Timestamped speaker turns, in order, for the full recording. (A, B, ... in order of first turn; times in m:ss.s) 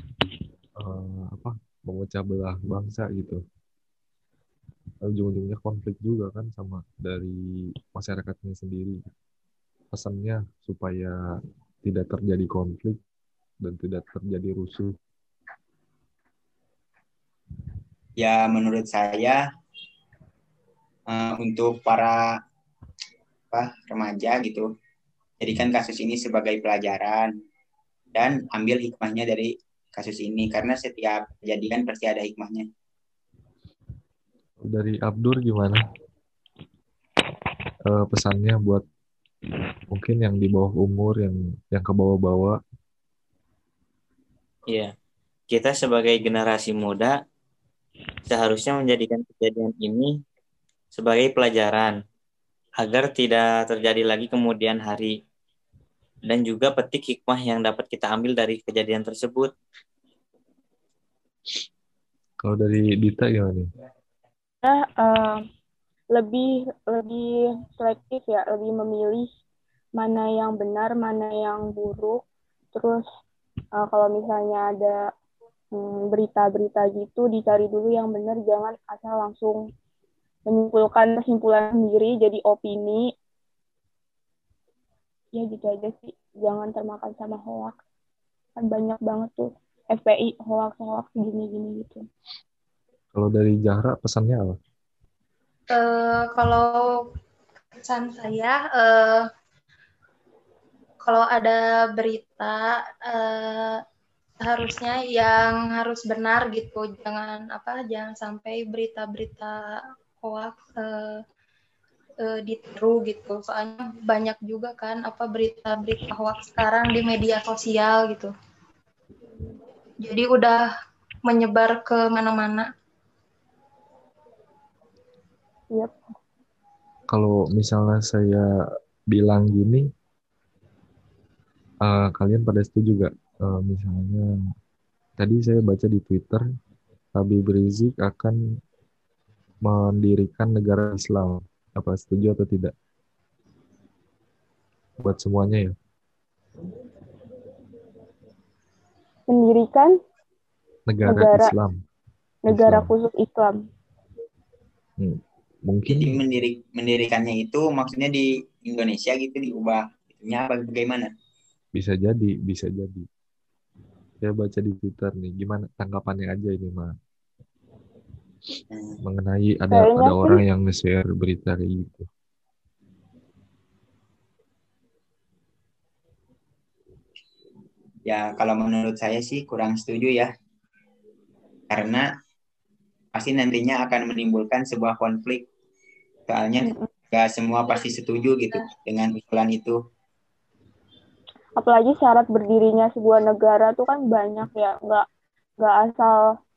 0:00.8-0:03.4 A
0:05.0-0:09.0 A
0:09.9-0:11.1 A
0:11.8-0:13.0 A
0:13.6-0:14.9 A
0:18.2-0:19.4 B
0:21.1-0:22.2 B
0:23.5-0:24.6 B
0:25.4-0:27.3 B
0:28.1-0:32.7 B
0:34.6-0:35.8 A
0:37.9-0:38.8 A
0:39.9-0:42.6 A
0:45.5-0:47.1 C
0:48.2-0:50.1 C
0:50.9-0:51.9 C
0:52.8-0:55.1 C
0:56.3-0:59.5 C
1:02.4-1:03.6 A
1:04.6-1:05.4 D
1:06.1-1:09.3 D
1:10.0-1:12.2 D
1:12.7-1:13.0 D
1:13.8-1:15.0 D
1:15.7-1:19.6 D
1:20.5-1:23.1 D
1:25.3-1:27.8 D
1:28.6-1:32.0 D
1:33.1-1:34.6 A
1:35.7-1:36.8 E
1:37.8-1:39.2 E
1:41.0-1:43.8 E
1:44.4-1:49.6 E
1:50.2-1:51.2 E
1:52.2-1:58.3 E
2:00.0-2:00.6 E
2:01.2-2:02.7 E
2:07.1-2:08.5 A
2:09.1-2:09.8 A
2:11.8-2:14.3 A
2:15.2-2:16.4 A
2:17.2-2:18.4 A
2:19.6-2:22.7 A
2:25.0-2:25.7 A
2:29.3-2:29.9 D
2:30.9-2:31.8 A
2:31.0-2:31.5 D
2:32.4-2:33.6 D
2:32.5-2:32.9 A
2:35.0-2:36.2 A
2:35.9-2:41.1 B
2:41.7-2:43.1 A
2:44.2-2:46.9 A
2:48.7-2:49.0 B
2:49.0-2:52.1 A
2:49.7-2:50.4 D
2:58.0-3:00.3 B
3:01.7-3:02.0 B
3:03.1-3:05.5 B
3:06.3-3:09.8 B
3:06.6-3:06.9 D
3:11.6-3:15.1 D
3:15.6-3:16.2 D